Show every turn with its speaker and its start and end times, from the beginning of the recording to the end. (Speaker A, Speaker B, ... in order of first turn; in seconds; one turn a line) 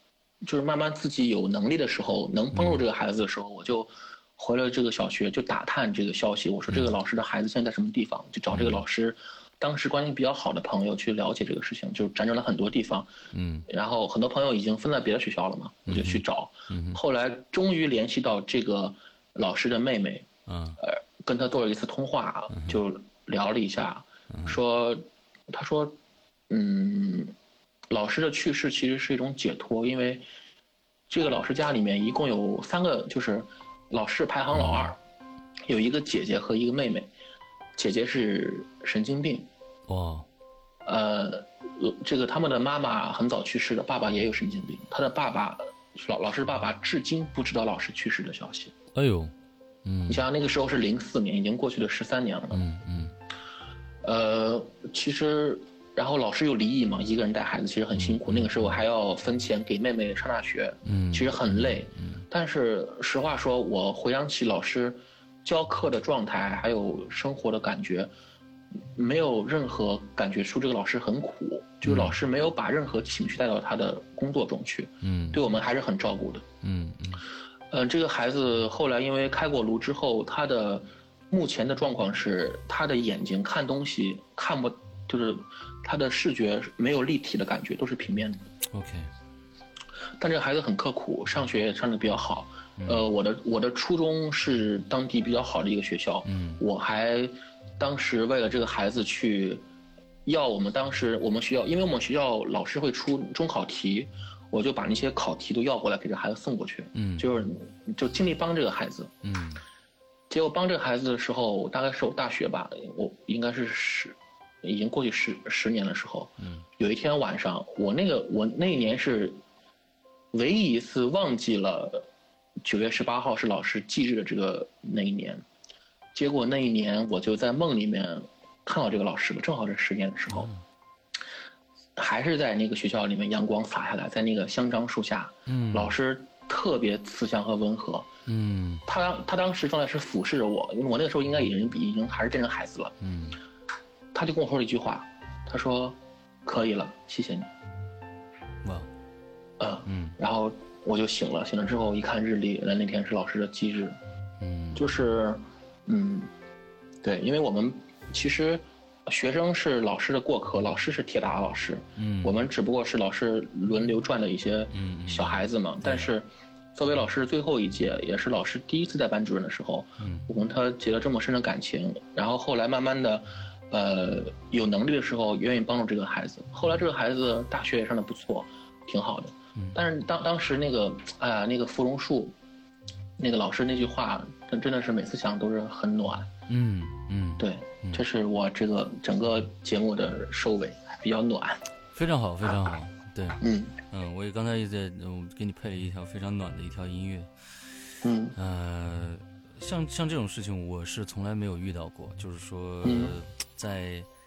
Speaker A: 0.4-13.1
Speaker B: 2.5-2.8
Speaker B: 6.7-6.9
Speaker B: 8.5-8.8
Speaker B: 13.3-13.7
Speaker A: 13.7-20.3
Speaker B: 15.9-17.0
Speaker B: 20.5-20.8
Speaker A: 20.8-26.0
Speaker B: 22.5-22.8
Speaker B: 24.3-24.6
Speaker A: 26.5-27.3
Speaker A: 27.9-30.2
Speaker A: 31.1-35.0
Speaker B: 34.5-34.9
Speaker A: 35.7-37.1
Speaker A: 37.8-39.5
Speaker B: 39.9-40.3
Speaker A: 40.9-48.7
Speaker B: 49.0-49.3
Speaker B: 49.9-50.2
Speaker A: 50.1-52.6
Speaker B: 52.5-53.1
Speaker A: 54.0-68.1
Speaker B: 58.0-58.5
Speaker B: 60.9-62.2
Speaker A: 68.8-76.4
Speaker B: 71.8-72.2
Speaker B: 75.0-75.4
Speaker B: 76.6-77.2
Speaker A: 77.7-88.4
Speaker B: 88.7-89.1
Speaker A: 90.2-99.6
Speaker B: 92.8-93.0
Speaker B: 96.2-96.6
Speaker A: 100.3-109.1
Speaker B: 106.9-107.3
Speaker B: 109.2-109.6
Speaker A: 110.3-119.4
Speaker A: 120.3-122.1
Speaker A: 122.6-125.4
Speaker A: 126.2-130.5
Speaker B: 130.3-130.6
Speaker A: 132.0-138.1
Speaker B: 135.5-135.9
Speaker B: 138.3-138.8
Speaker A: 138.9-142.9
Speaker B: 143.0-143.4
Speaker A: 144.1-147.5
Speaker B: 148.6-148.9
Speaker A: 149.6-154.0
Speaker B: 149.9-150.2
Speaker B: 154.4-154.8
Speaker A: 154.8-156.3
Speaker A: 157.0-182.3
Speaker B: 162.0-162.3
Speaker B: 164.7-166.1
Speaker B: 170.0-170.3
Speaker A: 183.2-186.3
Speaker B: 186.5-188.0
Speaker A: 187.4-191.6
Speaker B: 191.9-197.3
Speaker A: 193.4-193.8
Speaker A: 198.0-198.4
Speaker B: 198.4-204.1
Speaker A: 202.8-203.2